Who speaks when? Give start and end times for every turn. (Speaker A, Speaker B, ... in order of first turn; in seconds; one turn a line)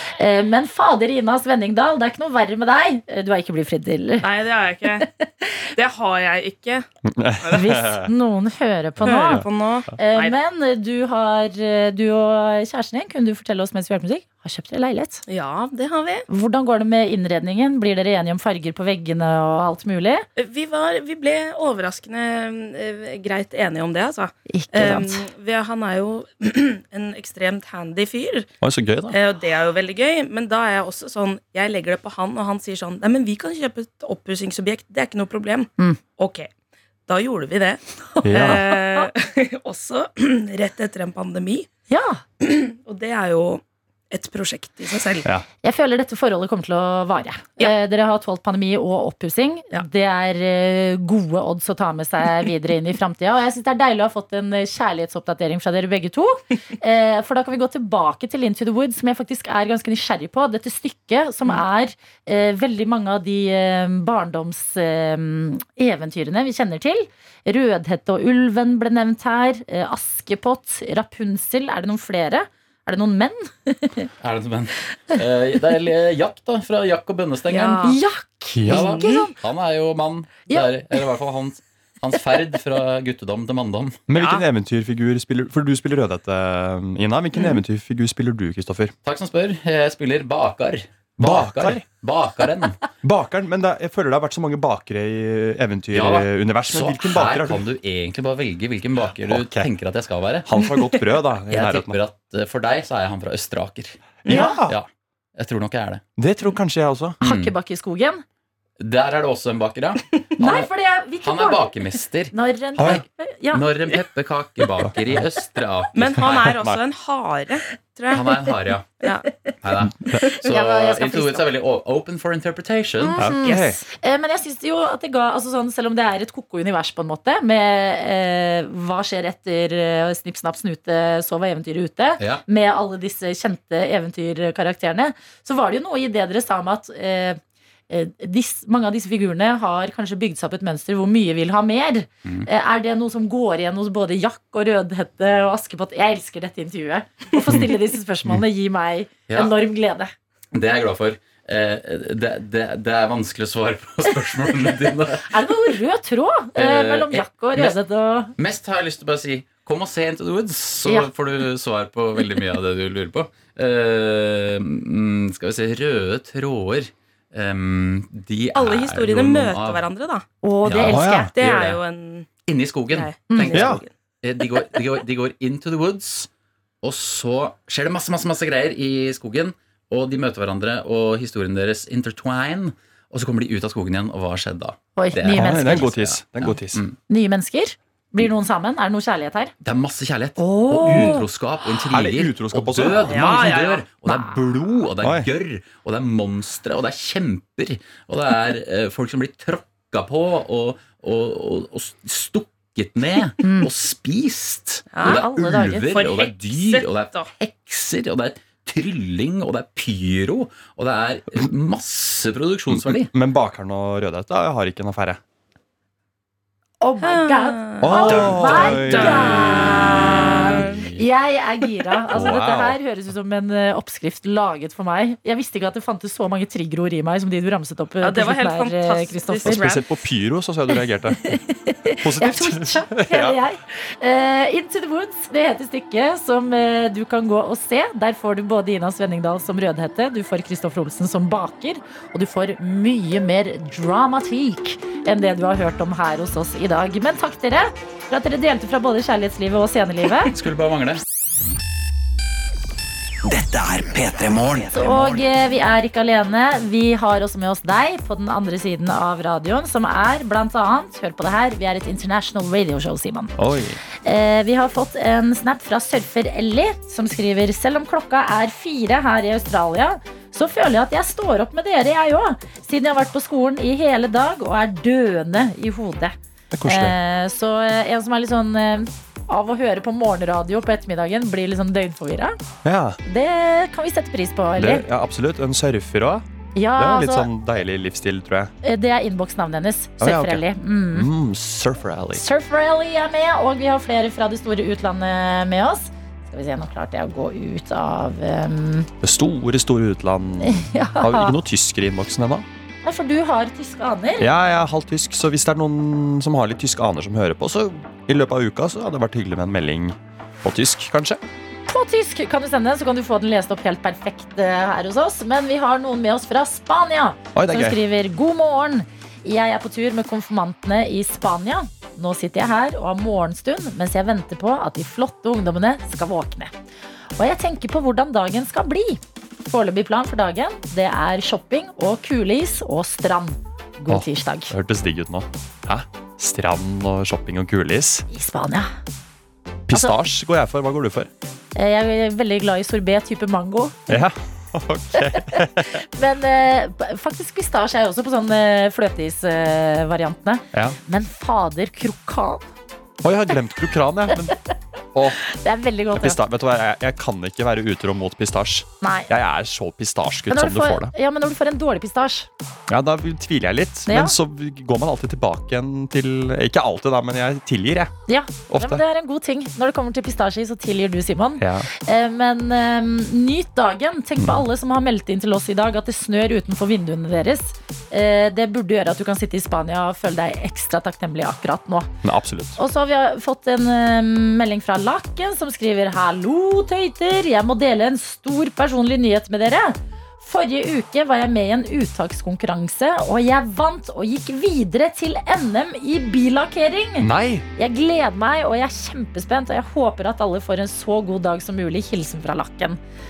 Speaker A: 0.2-4.3
Speaker B: 4.2-5.1
Speaker A: 5.0-5.6
Speaker B: 5.8-6.9
Speaker C: 7.1-8.1
Speaker B: 7.4-7.7
Speaker A: 7.5-15.2
Speaker B: 9.0-10.4
Speaker C: 9.1-9.5
Speaker B: 15.3-16.3
Speaker A: 16.3-20.3
Speaker B: 20.4-28.5
Speaker A: 24.5-25.2
Speaker C: 28.6-29.2
Speaker B: 29.1-36.5
Speaker B: 37.1-41.7
Speaker A: 38.2-39.1
Speaker C: 38.2-38.6
Speaker A: 41.9-42.2
Speaker B: 42.4-45.3
Speaker A: 45.6-74.1
Speaker D: 74.2-77.8
Speaker B: 77.5-78.0
Speaker A: 77.8-79.3
Speaker C: 78.5-78.8
Speaker D: 78.7-84.0
Speaker B: 78.9-79.3
Speaker C: 84.1-88.9
Speaker B: 84.1-84.5
Speaker D: 89.0-92.8
Speaker C: 91.2-91.8
Speaker C: 93.0-97.6
Speaker D: 95.9-100.5
Speaker C: 99.2-99.7
Speaker C: 100.5-102.0
Speaker D: 101.5-106.0
Speaker B: 104.2-104.5
Speaker A: 104.3-104.6
Speaker C: 104.3-104.8
Speaker C: 106.2-107.2
Speaker D: 107.2-107.5
Speaker A: 107.2-108.2
Speaker D: 108.8-110.7
Speaker A: 110.4-111.8
Speaker D: 111.2-113.0
Speaker A: 112.3-113.7
Speaker C: 112.8-113.0
Speaker D: 113.5-116.4
Speaker B: 115.9-118.4
Speaker C: 116.2-116.8
Speaker D: 118.1-118.9
Speaker B: 119.0-119.3
Speaker D: 119.6-123.3
Speaker A: 120.5-121.5
Speaker A: 123.0-150.1
Speaker C: 123.2-123.8
Speaker D: 132.2-132.4
Speaker D: 149.3-149.5
Speaker D: 150.5-155.3
Speaker A: 155.2-158.3
Speaker D: 156.6-157.8
Speaker D: 158.4-169.9
Speaker A: 160.8-161.1
Speaker B: 168.5-170.2
Speaker A: 170.4-171.3
Speaker D: 170.6-171.8
Speaker C: 170.9-171.3
Speaker B: 171.3-172.3
Speaker D: 172.4-176.3
Speaker B: 172.9-174.0
Speaker A: 173.3-173.7
Speaker C: 173.5-173.8
Speaker B: 174.5-174.8
Speaker D: 176.8-187.0
Speaker A: 185.0-185.9
Speaker C: 185.3-186.8
Speaker A: 187.1-189.5
Speaker D: 189.6-213.1
Speaker A: 190.4-191.2
Speaker C: 191.9-193.3
Speaker B: 193.1-193.9
Speaker A: 194.1-194.4
Speaker C: 195.0-195.3
Speaker A: 203.4-203.7
Speaker B: 204.9-205.3
Speaker A: 205.0-206.0
Speaker B: 205.9-207.3
Speaker C: 212.7-215.2
Speaker A: 216.8-229.6
Speaker B: 217.0-220.8
Speaker C: 217.8-219.4
Speaker D: 220.4-221.0
Speaker C: 222.1-222.8
Speaker B: 228.0-229.9
Speaker C: 229.4-231.3
Speaker A: 231.2-250.3
Speaker C: 232.0-233.4
Speaker D: 250.3-251.0
Speaker E: 253.2-255.2
Speaker A: 254.7-263.4
Speaker C: 263.4-263.8
Speaker A: 264.0-282.4
Speaker C: 276.5-277.0
Speaker C: 282.6-283.0
Speaker A: 283.1-284.9
Speaker C: 284.6-288.5
Speaker A: 286.6-287.3
Speaker A: 288.6-291.1
Speaker C: 290.0-292.2
Speaker A: 292.1-298.9
Speaker C: 299.0-302.5
Speaker A: 300.4-301.4
Speaker A: 302.9-304.3
Speaker C: 304.2-311.2
Speaker A: 311.7-326.5
Speaker C: 317.4-317.8
Speaker A: 327.2-334.5
Speaker C: 333.9-338.1
Speaker A: 338.1-338.7
Speaker C: 339.7-341.1
Speaker A: 341.6-343.9
Speaker C: 343.9-345.8
Speaker A: 345.0-352.5
Speaker C: 350.5-350.8
Speaker C: 353.0-354.4
Speaker C: 354.9-355.2
Speaker A: 355.2-356.2
Speaker C: 355.9-360.9
Speaker A: 358.8-359.1
Speaker A: 360.3-362.3
Speaker C: 362.7-367.9
Speaker A: 363.9-364.2
Speaker A: 368.1-381.9
Speaker C: 368.5-368.8
Speaker C: 371.4-371.7
Speaker C: 382.0-382.6
Speaker A: 382.6-402.8
Speaker C: 397.0-397.4